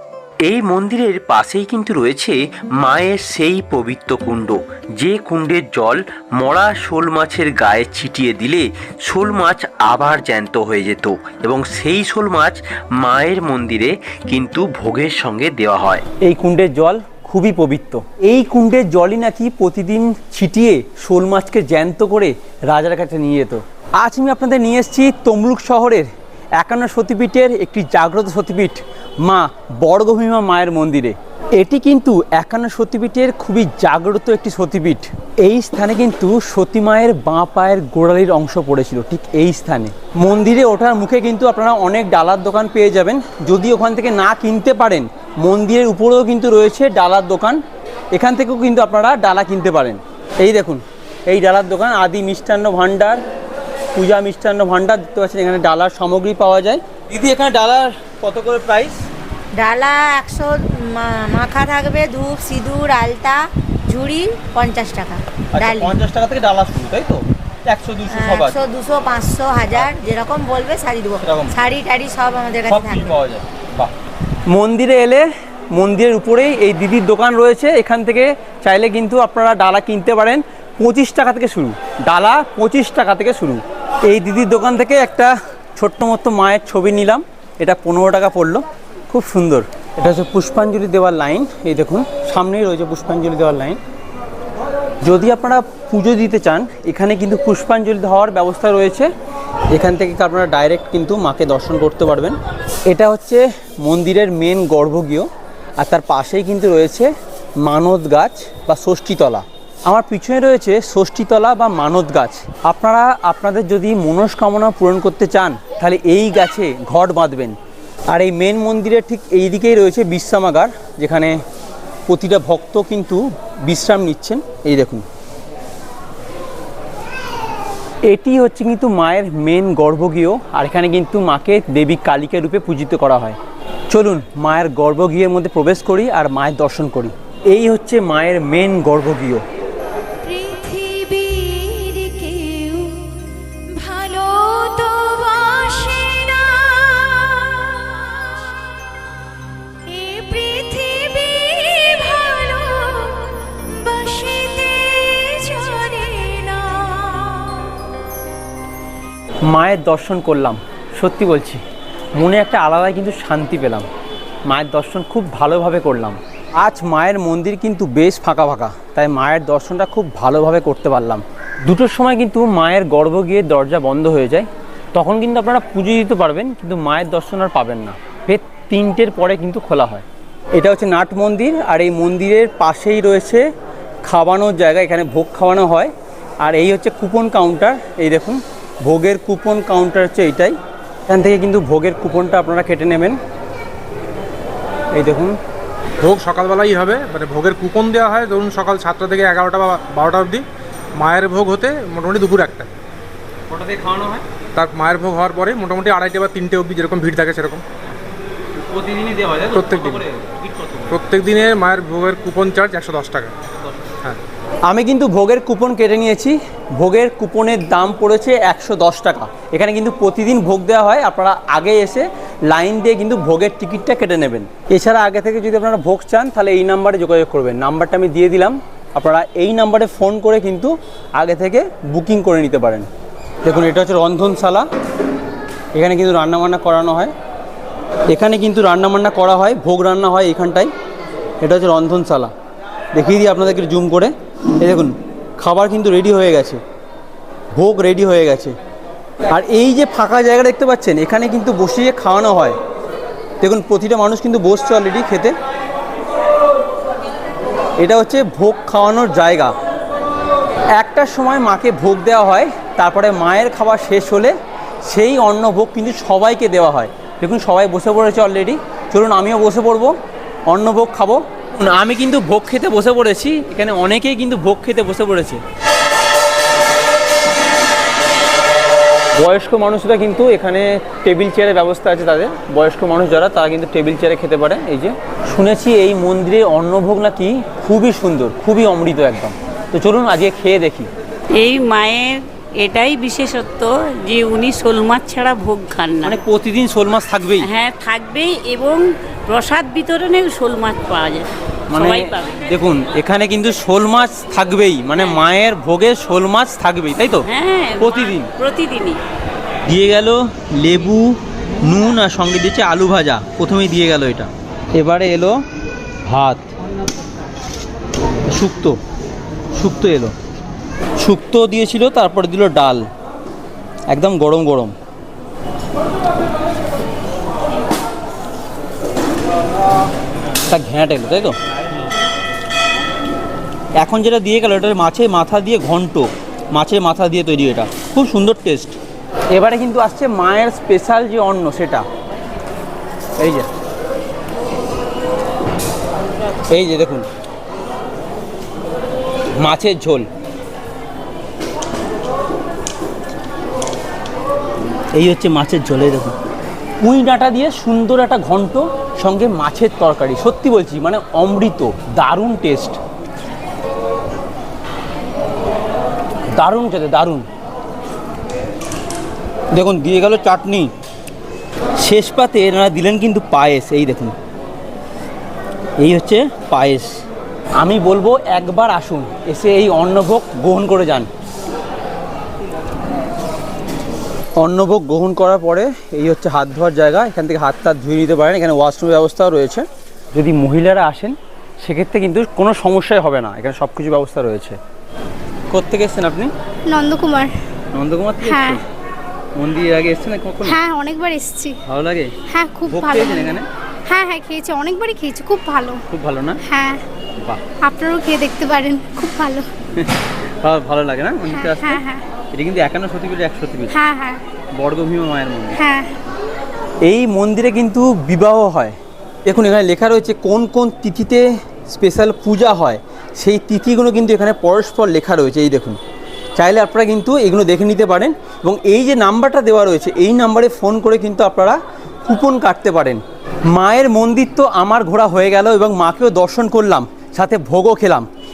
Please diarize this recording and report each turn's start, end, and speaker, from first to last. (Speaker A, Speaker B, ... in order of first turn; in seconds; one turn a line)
Speaker A: 0.4-16.0
Speaker B: 16.2-47.6
Speaker B: 48.1-53.2
Speaker B: 53.9-59.0
Speaker C: 59.5-65.9
Speaker B: 65.5-68.6
Speaker C: 68.1-73.2
Speaker B: 71.2-71.6
Speaker B: 72.7-73.9
Speaker B: 74.5-93.8
Speaker B: 95.0-99.1
Speaker B: 99.7-117.6
Speaker B: 118.1-121.4
Speaker B: 122.1-125.0
Speaker B: 128.1-133.4
Speaker B: 133.9-139.4
Speaker D: 140.2-148.5
Speaker D: 149.9-157.9
Speaker B: 159.5-161.6
Speaker B: 162.2-163.9
Speaker B: 164.5-183.5
Speaker B: 184.0-185.9
Speaker B: 186.4-190.6
Speaker B: 191.1-193.2
Speaker B: 194.9-195.4
Speaker E: 196.0-200.4
Speaker E: 200.9-202.7
Speaker E: 204.6-207.6
Speaker E: 209.5-210.1
Speaker E: 210.9-213.3
Speaker B: 214.7-232.9
Speaker B: 233.4-234.7
Speaker B: 235.7-237.1
Speaker B: 238.1-240.7
Speaker B: 241.4-242.3
Speaker B: 242.9-246.6
Speaker B: 247.5-248.6
Speaker B: 249.3-252.6
Speaker B: 253.4-255.3
Speaker B: 257.8-259.5
Speaker B: 260.8-269.9
Speaker B: 270.5-275.4
Speaker B: 279.2-290.9
Speaker F: 291.4-296.2
Speaker B: 296.0-297.5
Speaker F: 297.4-302.3
Speaker B: 301.7-307.2
Speaker F: 307.2-309.0
Speaker B: 307.8-308.3
Speaker B: 309.7-315.4
Speaker B: 316.1-316.5
Speaker B: 318.3-318.8
Speaker B: 319.6-320.1
Speaker B: 321.0-322.9
Speaker B: 323.9-324.7
Speaker B: 330.4-331.4
Speaker B: 333.8-338.8
Speaker B: 339.3-341.9
Speaker B: 343.2-343.5
Speaker B: 346.5-347.1
Speaker B: 349.4-350.1
Speaker B: 354.9-356.1
Speaker B: 356.8-362.8
Speaker B: 366.2-367.3
Speaker B: 369.5-370.7
Speaker B: 371.8-374.1
Speaker B: 375.8-377.0
Speaker B: 377.6-381.1
Speaker B: 384.4-394.6
Speaker B: 395.5-396.3
Speaker D: 396.7-397.3
Speaker B: 397.7-398.6
Speaker D: 398.2-398.6
Speaker B: 399.4-400.6
Speaker D: 400.4-401.6
Speaker B: 401.6-402.1
Speaker D: 402.3-405.8
Speaker B: 402.7-403.5
Speaker B: 405.9-406.4
Speaker D: 406.4-406.8
Speaker D: 407.6-409.5
Speaker B: 409.7-413.8
Speaker D: 411.3-412.0
Speaker D: 413.7-414.2
Speaker B: 414.5-415.6
Speaker D: 415.6-415.9
Speaker B: 416.8-425.8
Speaker B: 426.4-438.1